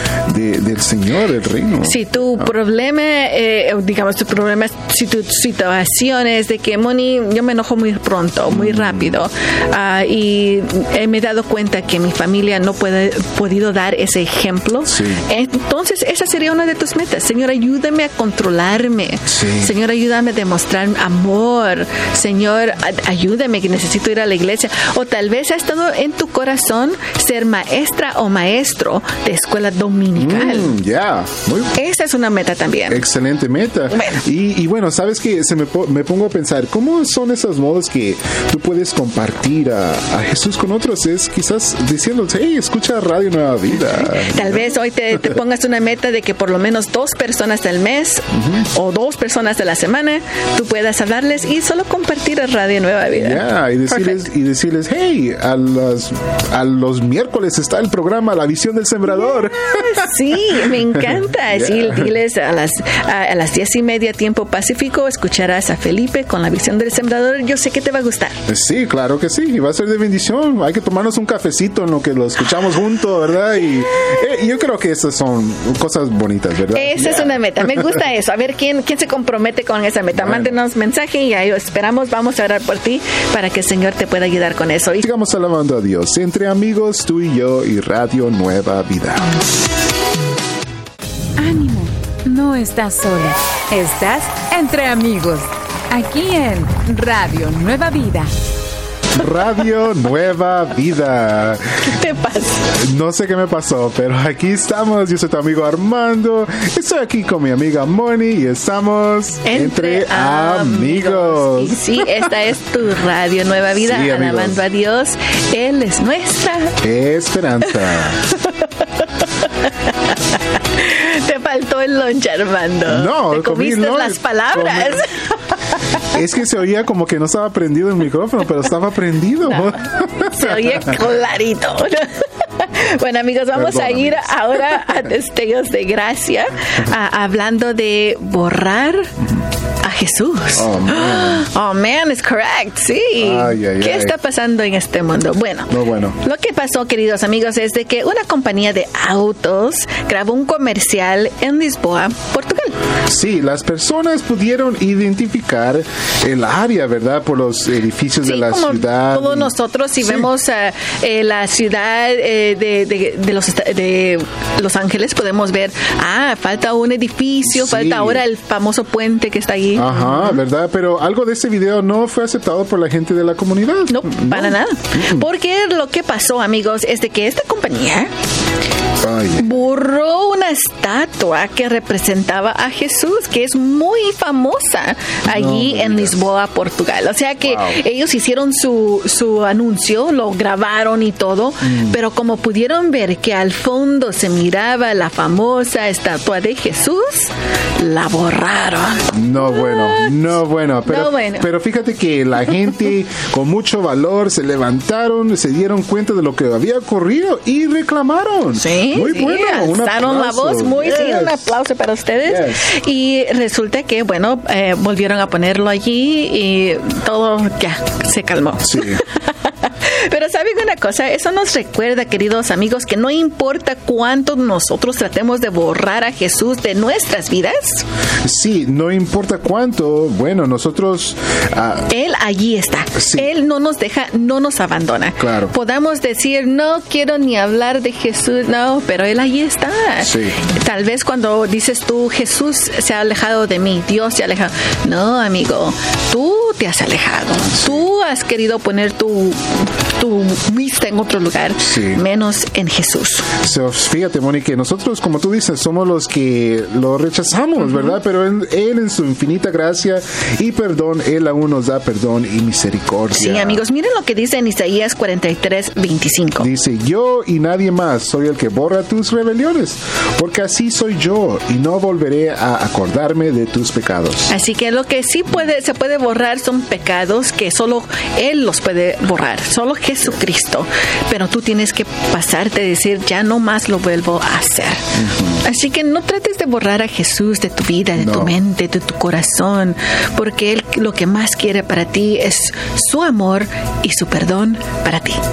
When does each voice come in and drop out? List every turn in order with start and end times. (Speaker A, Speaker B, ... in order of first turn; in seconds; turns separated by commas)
Speaker A: 0.3-2.5, Speaker B: 1.8-30.7, Speaker A: 8.5-9.2, Speaker A: 14.9-15.2, Speaker A: 19.3-19.7, Speaker A: 30.2-31.8, Speaker B: 31.7-33.0, Speaker A: 32.9-45.4, Speaker B: 33.9-34.2, Speaker B: 43.9-54.2, Speaker A: 53.1-62.1, Speaker B: 59.3-68.4, Speaker A: 68.5-78.0, Speaker B: 76.7-85.1, Speaker A: 80.1-80.6, Speaker A: 85.0-89.3, Speaker C: 91.4-98.3, Speaker A: 99.1-101.8, Speaker B: 101.8-102.7, Speaker A: 102.7-112.1, Speaker B: 109.4-116.8, Speaker A: 113.8-114.6, Speaker A: 116.8-118.2, Speaker B: 117.7-120.2, Speaker B: 120.8-125.4, Speaker A: 122.9-125.1, Speaker A: 126.1-131.0, Speaker B: 129.5-139.2, Speaker A: 133.5-134.9, Speaker B: 139.8-152.8, Speaker A: 140.6-141.4, Speaker A: 143.2-144.2, Speaker A: 145.7-146.2, Speaker A: 153.1-160.3, Speaker B: 158.2-170.4, Speaker A: 167.5-168.2, Speaker A: 169.8-175.3, Speaker B: 173.9-178.1, Speaker A: 179.0-179.5, Speaker B: 179.4-201.5, Speaker A: 185.3-186.3, Speaker A: 187.4-187.8, Speaker A: 191.6-192.0, Speaker A: 199.1-211.6, Speaker B: 208.6-227.8, Speaker A: 212.3-212.7, Speaker A: 218.6-219.0, Speaker A: 228.2-231.9, Speaker B: 231.9-253.3, Speaker A: 233.0-233.3, Speaker A: 235.2-235.5, Speaker A: 240.0-240.4, Speaker A: 247.5-247.9, Speaker A: 251.6-252.0, Speaker A: 253.3-263.6, Speaker B: 257.6-258.0, Speaker B: 263.1-266.5, Speaker A: 266.4-274.3, Speaker B: 274.3-284.9, Speaker A: 284.9-285.4, Speaker B: 285.4-295.2, Speaker A: 288.0-288.3